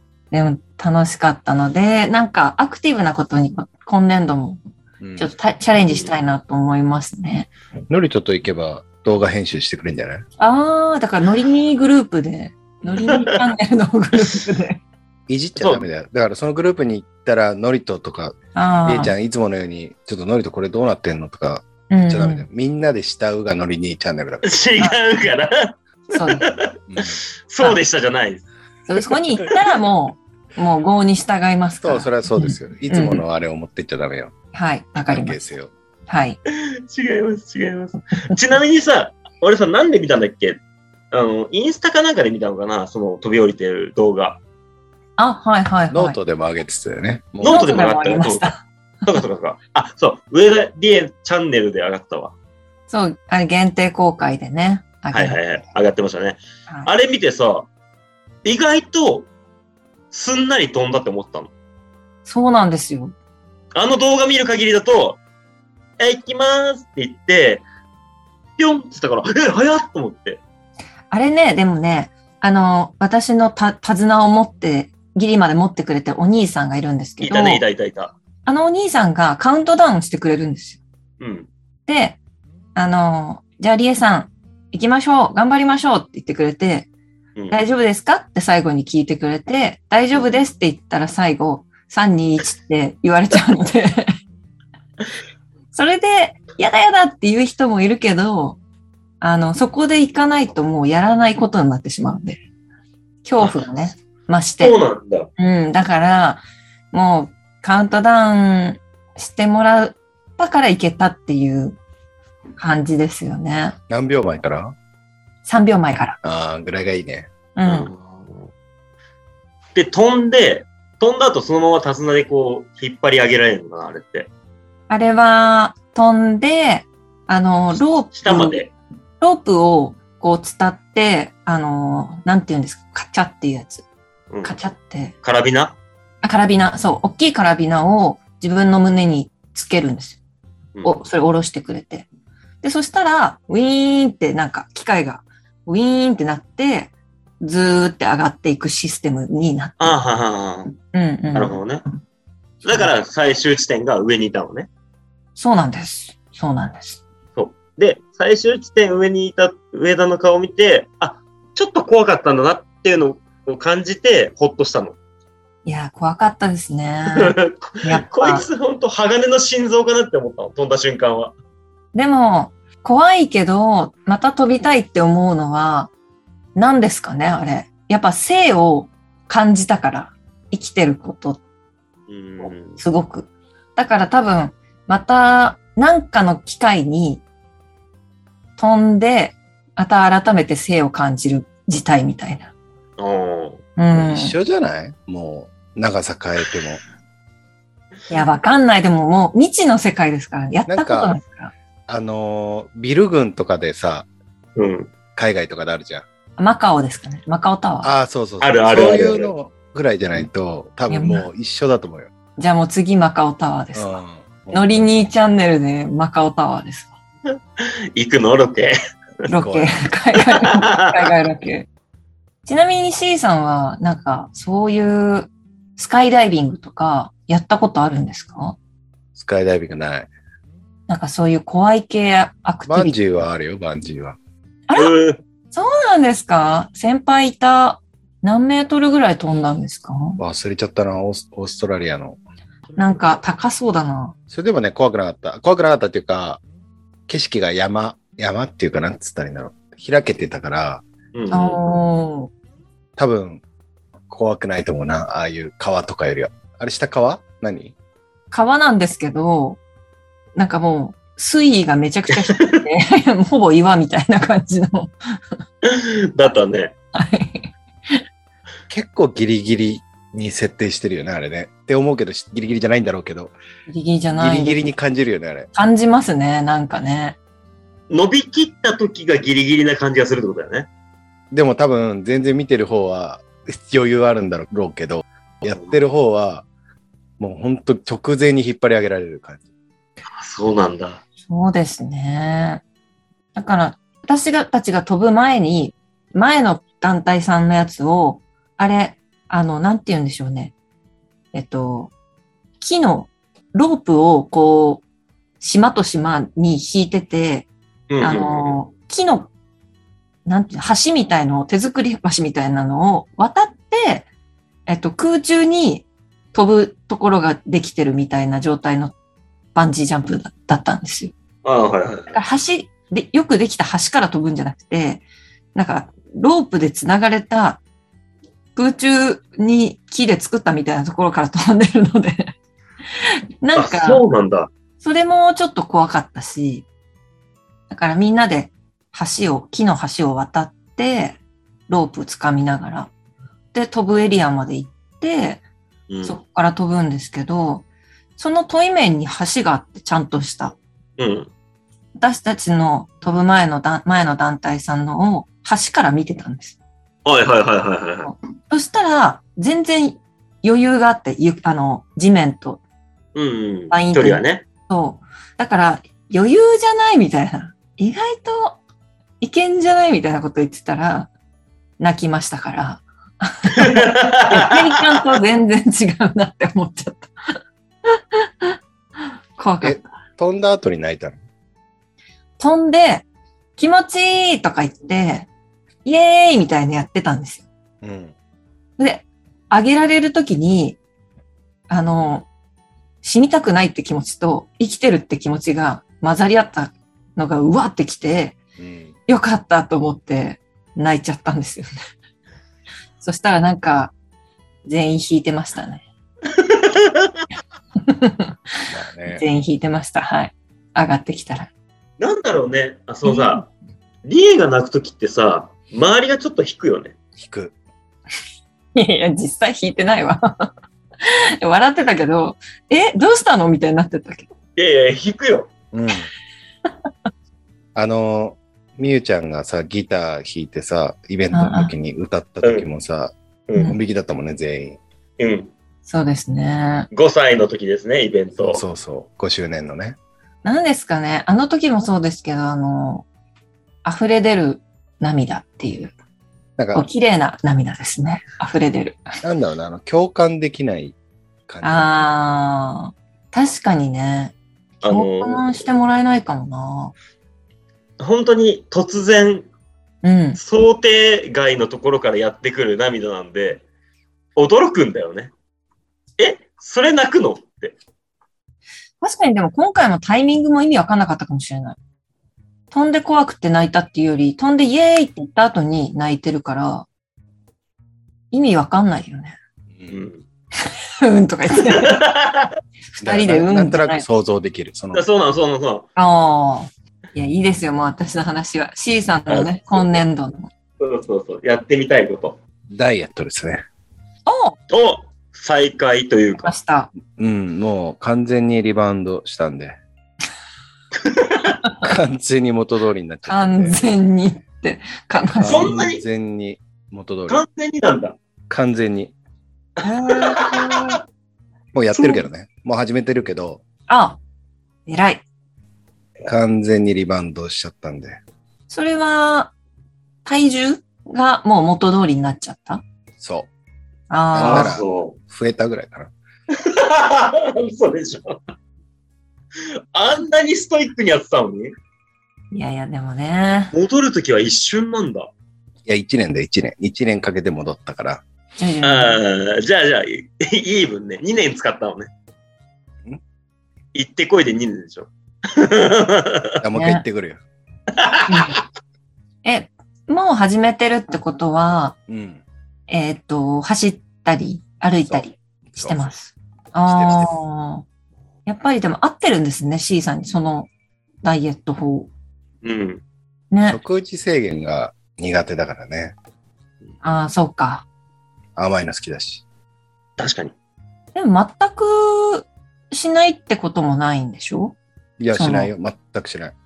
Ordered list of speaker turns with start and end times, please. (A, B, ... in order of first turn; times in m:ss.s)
0:00.3-0:04.6 A
0:05.0-0:05.3 B
0:05.2-0:07.5 A
0:05.9-0:06.1 C
0:07.9-0:10.2 B
0:10.4-0:14.8 A
0:12.9-0:13.4 C
0:15.3-0:18.3 B
0:15.6-0:15.8 C
0:18.5-0:19.1 A
0:18.8-0:24.6 B
0:21.9-0:22.4 A
0:24.4-0:28.4 C
0:26.1-0:26.5 A
0:26.9-0:27.2 B
0:28.9-0:33.2 A
0:31.8-0:34.3 B
0:34.5-0:35.4 A
0:35.0-0:35.7 B
0:36.1-0:36.4 A
0:36.5-0:40.6 C
0:41.1-0:44.4 C
0:45.2-0:46.2 A
0:45.9-0:47.7 B
0:47.4-0:48.5 C
0:47.4-0:48.6 A
0:49.0-0:52.3 C
0:52.9-0:55.4 A
0:55.1-0:57.7 C
0:58.4-0:59.3 C
1:00.1-1:01.5 C
1:02.2-1:03.1 A
1:03.7-1:05.2 C
1:06.0-1:07.6 C
1:08.6-1:10.4 C
1:11.1-1:17.6 A
1:17.2-1:18.1 C
1:18.4-1:20.8 A
1:21.2-1:21.5 C
1:21.9-1:22.2 A
1:22.7-1:26.9 A
1:27.5-1:34.1 A
1:35.7-1:38.6 A
1:39.2-1:42.4 A
1:43.2-1:44.8 A
1:44.6-1:45.3 C
1:45.4-1:51.8 A
1:52.6-1:53.8 A
1:53.9-1:54.8 B
1:55.4-1:56.2 A
1:56.2-1:57.3 B
1:57.6-1:57.9 A
1:57.6-1:58.5 C
1:59.7-2:04.3 C
2:04.9-2:08.6 A
2:08.1-2:08.7 C
2:09.2-2:13.8 A
2:14.3-2:14.6 C
2:14.4-2:15.1 A
2:15.2-2:15.8 C
2:16.2-2:20.2 A
2:20.8-2:22.1 A
2:22.6-2:30.0 A
2:29.8-2:30.7 C
2:30.9-2:31.6 A
2:31.3-2:31.8 C
2:32.6-2:34.7 C
2:35.4-2:37.0 A
2:37.4-2:45.0 C
2:45.6-2:48.4 A
2:47.1-2:51.3 C
2:51.9-2:55.9 A
2:56.5-3:01.4 A
3:02.1-3:02.8 C
3:02.4-3:07.2 A
3:08.6-3:12.5 A
3:13.0-3:13.6 C
3:13.8-3:14.4 A
3:13.9-3:16.8 B
3:18.1-3:21.5 A
3:20.7-3:21.2 B
3:21.9-3:24.1 B
3:24.6-3:24.9 C
3:25.1-3:26.0 B
3:26.4-3:27.9 A
3:27.8-3:32.1 B
3:28.4-3:29.3 C
3:30.9-3:31.2 A
3:32.4-3:34.0 A
3:33.7-3:34.9 B
3:34.5-3:36.9 A
3:37.6-3:38.8 C
3:39.3-3:41.7 A
3:39.3-3:39.7 B
3:40.3-3:40.9 C
3:42.4-3:48.6 A
3:49.1-3:50.1 B
3:50.9-3:53.2 A
3:52.7-3:54.2 B
3:54.8-3:55.2 C
3:55.5-4:00.2 A
4:00.2-4:02.2 B
4:02.8-4:03.1 C
4:02.8-4:04.1 A
4:04.3-4:06.4 B
4:07.1-4:10.8 B
4:11.1-4:11.6 C
4:11.3-4:12.3 A
4:13.0-4:13.4 B
4:14.1-4:17.7 B
4:18.3-4:19.6 A
4:20.4-4:24.9 A
4:22.2-4:22.6 C
4:25.6-4:26.7 C
4:26.9-4:28.0 A
4:28.7-4:33.3 B
4:33.7-4:34.7 A
4:34.2-4:35.5 B
4:35.5-4:37.2 A
4:37.9-4:40.7 C
4:41.3-4:46.4 B
4:45.4-4:45.8 C
4:47.2-4:49.4 B
4:50.1-4:51.0 C
4:51.3-4:52.6 A
4:53.3-5:00.5 A
5:01.3-5:01.9 A
5:02.6-5:04.8 A
5:05.4-5:07.5 A
5:07.9-5:08.6 C
5:08.0-5:09.3 A
5:10.2-5:14.1 A
5:14.7-5:18.9 A
5:19.5-5:21.1 A
5:21.4-5:22.2 C
5:22.1-5:25.0 A
5:25.5-5:27.6 A
5:28.6-5:32.3 A
5:33.0-5:34.0 A
5:33.5-5:34.5 C
5:34.8-5:36.6 A
5:37.7-5:41.2 A
5:41.7-5:42.9 A
5:43.5-5:45.4 A
5:45.9-5:46.2 C
5:46.0-5:47.6 A
5:48.2-5:50.6 A
5:51.0-5:51.3 C
5:52.0-5:56.6 A
5:57.0-5:58.1 C
5:58.0-6:02.6 A
6:03.1-6:04.4 C
6:03.7-6:08.6 A
6:09.2-6:11.1 A
6:11.8-6:17.4 A
6:13.6-6:14.5 C
6:18.2-6:18.6 A
6:19.4-6:19.8 A
6:19.6-6:21.2 B
6:22.4-6:23.0 A
6:23.6-6:25.3 A
6:25.8-6:27.4 A
6:27.8-6:28.1 B
6:28.8-6:30.8 A
6:31.7-6:32.3 A
6:33.0-6:38.4 A
6:38.6-6:38.9 B
6:39.1-6:41.8 A
6:43.0-6:43.9 A
6:44.6-6:45.8 A
6:46.3-6:47.1 C
6:47.8-6:48.3 A
6:48.7-6:49.2 B
6:49.1-6:51.5 A
6:52.0-6:53.5 C
6:53.0-6:53.4 A
6:54.0-6:57.0 C
6:57.2-6:57.5 B
6:58.7-7:00.5 A
7:01.0-7:04.3 A
7:04.6-7:05.5 C
7:05.7-7:06.1 B
7:07.7-7:14.8 B
7:11.3-7:11.7 A
7:13.5-7:13.7 C
7:15.2-7:15.5 C
7:15.8-7:16.9 A
7:16.9-7:18.6 C
7:18.4-7:20.0 B
7:20.4-7:23.0 A
7:23.8-7:25.9 A
7:26.6-7:26.8 B
7:26.7-7:29.1 A
7:29.2-7:31.0 B
7:31.5-7:31.9 B
7:31.6-7:34.3 A
7:34.8-7:35.5 C
7:34.9-7:36.9 A
7:38.0-7:39.5 C
7:40.0-7:40.4 A
7:40.4-7:43.6 C
7:44.4-7:45.3 C
7:46.2-7:47.8 C
7:49.0-7:51.8 A
7:52.7-7:56.9 A
7:58.3-7:59.4 A
7:59.9-8:00.2 C
8:00.6-8:02.0 A
8:01.6-8:02.5 C
8:02.9-8:04.0 A
8:03.0-8:05.0 B
8:04.9-8:05.8 C
8:06.0-8:10.5 A
8:09.3-8:10.0 C
8:10.8-8:12.4 C
8:12.7-8:13.6 B
8:14.2-8:14.6 A
8:14.7-8:16.5 C
8:16.4-8:16.9 A
8:17.1-8:19.8 B
8:21.0-8:21.5 C
8:21.8-8:23.9 B
8:23.3-8:25.8 A
8:25.4-8:27.4 B
8:25.4-8:26.0 C
8:27.3-8:28.2 C
8:28.5-8:29.1 B
8:29.8-8:31.0 A
8:30.1-8:30.8 C
8:31.7-8:33.6 B
8:33.9-8:34.2 A
8:34.9-8:35.2 A
8:36.2-8:38.2 B
8:38.7-8:39.5 A
8:40.2-8:42.8 A
8:43.2-8:43.5 B
8:44.1-8:44.7 A
8:44.3-8:46.1 B
8:44.4-8:45.2 C
8:46.5-8:48.4 C
8:49.6-8:51.7 C
8:52.5-8:53.7 A
8:53.7-8:55.3 C
8:55.8-8:58.2 B
8:58.6-8:59.2 A
8:58.8-9:02.1 C
9:03.9-9:06.6 C
9:06.6-9:07.4 B
9:06.8-9:07.0 A
9:07.9-9:08.4 C
9:08.3-9:08.6 A
9:09.4-9:12.0 A
9:12.1-9:12.4 B
9:12.9-9:17.8 A
9:15.1-9:16.1 B
9:16.8-9:17.3 B
9:18.4-9:20.7 A
9:21.2-9:22.1 A
9:22.6-9:23.0 C
9:23.5-9:23.8 A
9:23.6-9:26.2 B
9:27.0-9:27.8 A
9:28.6-9:29.4 B
9:30.2-9:30.5 C
9:31.1-9:34.8 A
9:35.2-9:36.5 B
9:35.3-9:35.7 A